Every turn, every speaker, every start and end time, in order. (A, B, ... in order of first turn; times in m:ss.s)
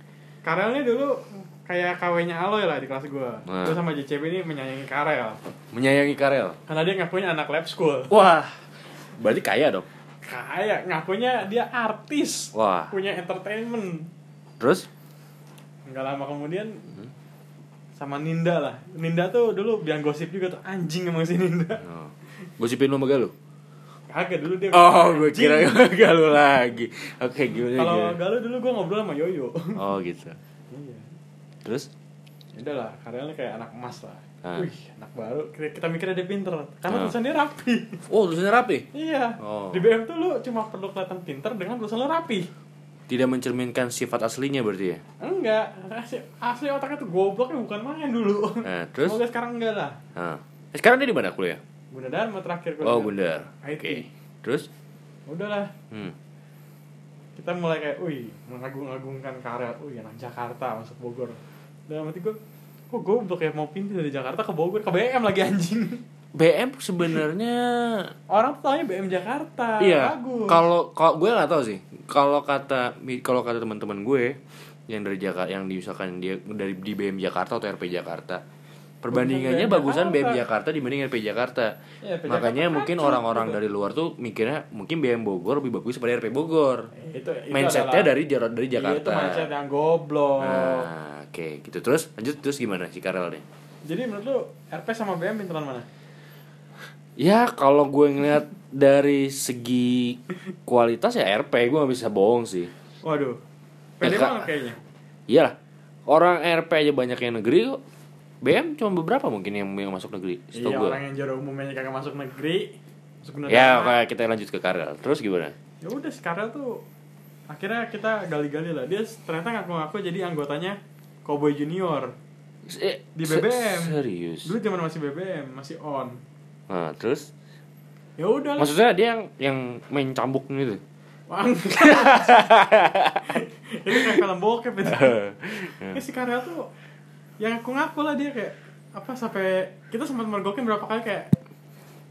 0:00.4-0:05.4 A
0:03.5-0:03.8 B
0:05.7-0:06.6 B
0:06.7-0:08.1 A
0:08.1-0:08.5 B
0:09.2-0:09.9 B
0:10.2-0:14.1 A
0:12.5-0:12.9 B
0:14.6-0:14.9 B
0:15.8-0:16.9 A
0:18.0-0:21.9 A
0:21.8-0:23.3 B
0:24.1-0:25.9 A
0:24.7-0:28.2 B
0:27.7-0:29.8 A
0:29.8-0:30.4 B
0:30.7-0:31.1 A
0:31.6-0:31.9 B
0:32.6-0:38.0 A
0:34.4-0:34.7 B
0:36.9-0:37.1 B
0:38.1-0:38.9 B
0:38.9-0:42.5 A
0:39.4-0:39.9 B
0:43.1-0:45.0 B
0:45.2-0:50.0 A
0:48.6-0:49.2 B
0:50.1-0:51.6 B
0:51.9-0:54.0 A
0:52.8-0:54.7 B
0:55.3-0:55.7 A
0:55.9-0:56.2 B
0:57.4-1:02.4 A
1:02.9-1:06.0 A
1:06.3-1:08.1 B
1:08.3-1:10.6 A
1:09.8-1:18.4 B
1:19.0-1:21.7 B
1:19.1-1:20.4 A
1:22.0-1:23.6 A
1:22.2-1:26.9 B
1:26.9-1:28.1 A
1:27.5-1:29.5 B
1:28.8-1:30.9 A
1:30.4-1:33.4 B
1:33.8-1:35.9 A
1:37.2-1:42.7 B
1:43.0-1:43.4 A
1:44.0-1:44.8 A
1:44.0-1:44.4 B
1:45.3-1:45.6 B
1:46.1-1:47.8 B
1:48.4-1:51.0 B
1:50.5-1:54.0 A
1:53.5-1:55.5 B
1:55.8-1:56.8 A
1:57.5-2:02.1 A
2:02.6-2:04.5 B
2:03.2-2:06.2 A
2:06.7-2:07.3 B
2:08.2-2:08.7 A
2:08.6-2:10.8 B
2:11.3-2:12.7 A
2:11.8-2:13.4 B
2:13.2-2:15.1 A
2:13.9-2:14.2 B
2:14.8-2:16.0 B
2:15.9-2:16.7 A
2:17.4-2:21.3 A